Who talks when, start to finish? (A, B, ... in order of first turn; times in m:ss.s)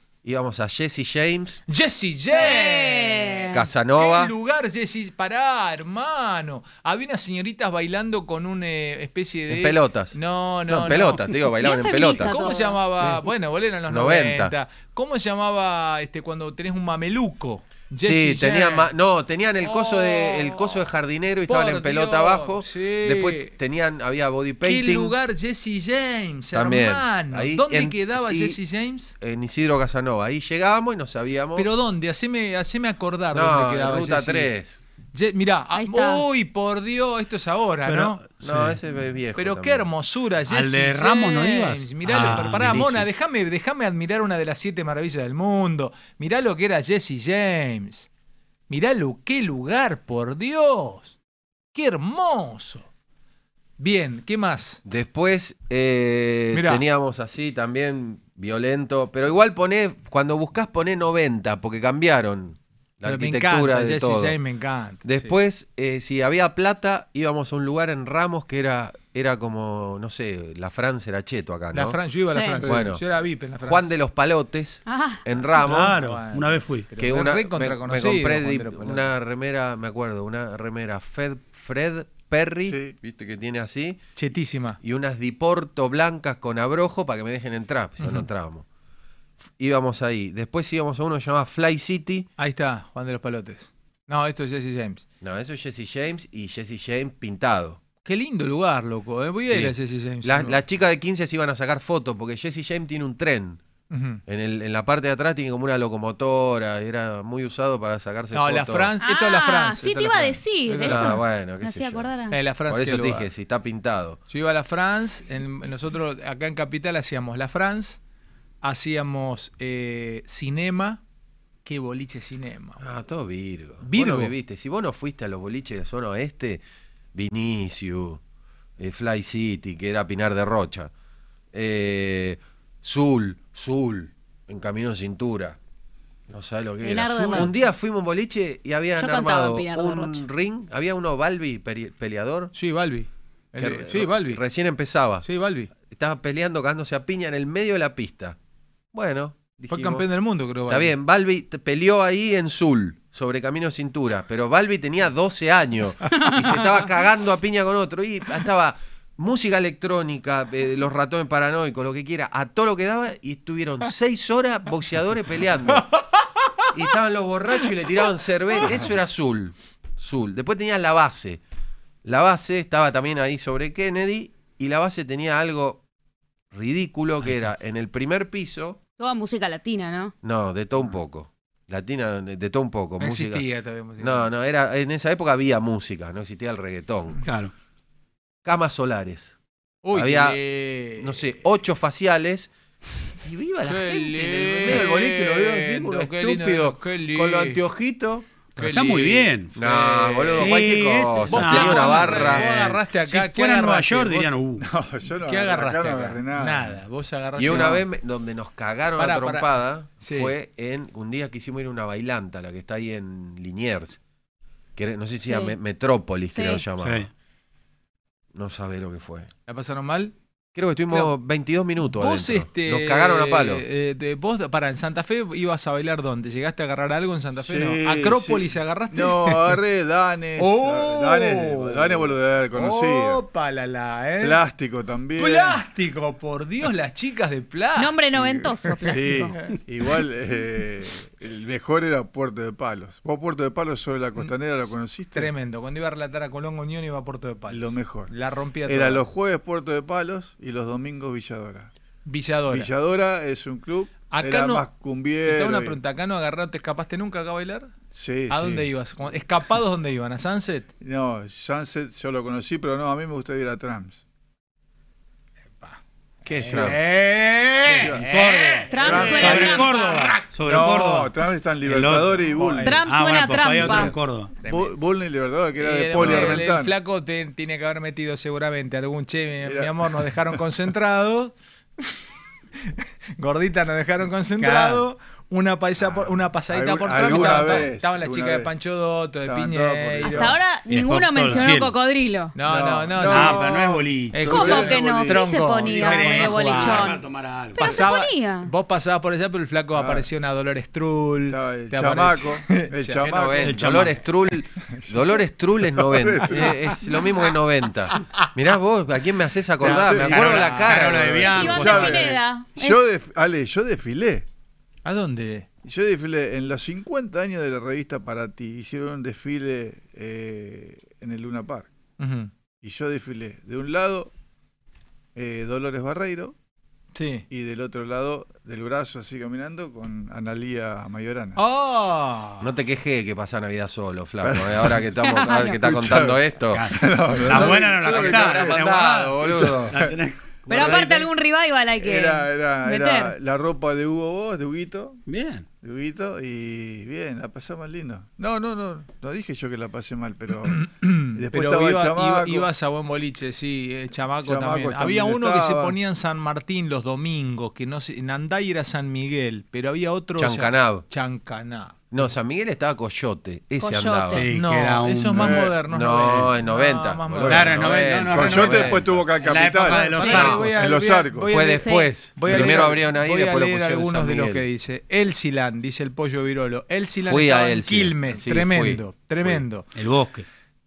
0:00.2-0:01.6 A
0:01.7-0:11.2 B
0:02.3-0:03.6 C
0:03.5-0:04.3 A
0:09.5-0:12.4 A
0:11.6-0:12.8 C
0:12.1-0:18.9 B
0:13.9-0:14.5 A
0:18.0-0:25.2 A
0:19.6-0:20.9 B
0:21.5-0:23.5 B
0:24.6-0:29.2 B
0:26.5-0:28.6 A
0:29.2-0:31.7 A
0:31.6-0:34.5 B
0:33.3-0:34.8 A
0:35.1-0:38.2 B
0:35.7-0:36.2 C
0:37.9-0:38.8 D
0:38.4-0:39.9 A
0:39.4-0:48.1 B
0:40.5-0:42.9 D
0:42.6-0:43.1 A
0:48.7-0:51.2 B
0:51.7-0:52.9 B
0:53.8-0:54.8 B
0:54.8-1:04.4 A
0:56.5-0:56.8 B
1:03.0-1:05.3 B
1:05.0-1:12.0 A
1:11.7-1:13.9 B
1:12.3-1:12.6 C
1:12.6-1:13.0 A
1:13.7-1:16.0 A
1:14.9-1:15.3 C
1:15.6-1:16.9 D
1:15.7-1:19.1 B
1:17.0-1:24.0 A
1:22.6-1:22.9 E
1:24.2-1:24.8 B
1:24.8-1:28.6 A
1:29.6-1:32.3 A
1:32.4-1:35.0 B
1:35.2-1:37.8 A
1:38.0-1:40.6 B
1:39.5-1:43.6 A
1:43.9-1:44.2 B
1:44.3-1:48.9 A
1:48.3-1:51.2 B
1:49.0-1:52.4 C
1:50.8-1:52.1 A
1:52.3-1:53.3 B
1:52.7-1:54.2 A
1:54.3-1:58.0 B
1:58.6-2:01.0 B
2:01.6-2:02.9 B
2:02.8-2:06.6 A
2:03.8-2:04.3 B
2:07.2-2:08.2 A
2:08.8-2:10.9 A
2:11.5-2:15.6 A
2:16.3-2:22.5 A
2:16.8-2:17.7 C
2:17.0-2:17.5 B
2:19.0-2:20.2 C
2:22.5-2:24.4 B
2:23.6-2:25.3 A
2:25.2-2:25.7 B
2:25.9-2:28.4 A
2:28.9-2:30.1 A
2:29.7-2:30.9 B
2:30.7-2:46.0 A
2:46.7-2:51.4 A
2:52.0-2:55.8 A
2:56.5-2:58.8 A
2:59.0-3:00.1 C
3:00.2-3:03.5 A
3:03.0-3:04.3 B
3:04.0-3:07.2 A
3:07.2-3:07.5 D
3:08.4-3:09.3 A
3:09.8-3:11.3 B
3:09.9-3:12.5 A
3:13.2-3:18.3 A
3:13.7-3:17.6 B
3:18.6-3:19.3 B
3:18.6-3:24.6 D
3:19.6-3:22.5 A
3:21.3-3:24.3 B
3:24.6-3:26.8 E
3:25.2-3:27.8 B
3:27.4-3:34.0 A
3:29.0-3:30.3 B
3:34.8-3:37.1 A
3:35.2-3:35.6 C
3:36.3-3:36.6 C
3:36.8-3:37.1 D
3:38.4-3:39.3 A
3:39.5-3:40.1 B
3:40.6-3:43.6 A
3:41.9-3:49.6 B
3:47.4-3:53.2 E
3:50.4-3:54.4 B
3:54.2-3:55.6 E
3:55.2-3:59.0 B
3:57.8-3:59.4 C
3:58.9-4:05.3 E
4:05.1-4:09.0 B
4:07.5-4:08.1 E
4:08.6-4:11.7 E
4:12.1-4:12.7 B
4:12.5-4:15.8 E
4:14.1-4:14.7 B
4:15.2-4:17.8 B
4:17.9-4:18.7 E
4:18.3-4:20.7 B
4:20.8-4:24.0 E
4:26.2-4:26.8 A
4:26.4-4:30.2 B
4:26.5-4:31.1 D
4:27.7-4:28.1 E
4:28.7-4:30.1 C
4:28.8-4:29.6 E
4:30.4-4:32.8 E
4:31.6-4:34.3 D
4:32.2-4:32.8 B
4:32.6-4:34.0 C
4:33.6-4:33.9 A
4:34.4-4:36.8 E
4:35.6-4:41.8 B
4:36.0-4:36.4 A
4:39.4-4:40.4 E
4:42.8-4:50.4 B
4:44.4-4:44.9 D
4:45.9-4:48.5 E
4:49.2-4:50.4 E
4:50.0-4:52.4 C
4:50.7-4:51.8 D
4:52.4-4:53.4 B
4:52.5-4:54.8 D
4:52.9-4:55.3 E
4:53.1-4:53.6 C
4:54.1-4:57.0 B
4:54.2-4:58.5 C
4:55.7-4:57.8 D
4:57.6-5:03.0 B
4:59.7-5:00.1 E
5:01.3-5:03.6 E
5:03.0-5:11.6 A
5:03.4-5:04.0 D
5:04.7-5:05.2 E
5:05.8-5:06.9 E
5:09.6-5:14.3 E
5:09.6-5:12.2 D
5:11.3-5:12.8 C
5:14.8-5:15.5 B
5:15.6-5:21.7 E
5:22.0-5:22.3 B
5:22.6-5:24.1 E
5:25.2-5:26.4 E
5:26.9-5:27.3 B
5:27.3-5:31.4 E
5:31.4-5:32.5 B
5:32.4-5:36.7 A
5:34.2-5:34.9 E
5:35.1-5:35.6 C
5:35.6-5:38.6 E
5:36.5-5:41.1 D
5:37.3-5:39.7 A
5:39.2-5:41.0 E
5:40.5-5:43.1 C
5:41.8-5:45.0 E
5:45.1-5:45.4 D
5:45.6-5:52.5 E
5:50.5-6:01.8 B
5:54.2-5:55.8 E
6:00.2-6:00.9 A
6:01.9-6:04.2 A
6:03.6-6:04.3 C
6:04.1-6:05.5 D
6:04.3-6:07.5 B
6:05.2-6:05.6 E
6:05.7-6:08.9 A
6:07.2-6:11.4 E
6:07.3-6:10.6 D
6:09.6-6:19.7 B
6:10.0-6:10.4 A
6:11.3-6:14.4 A
6:11.6-6:11.9 C
6:12.3-6:12.6 D
6:17.0-6:19.4 A
6:19.8-6:20.2 D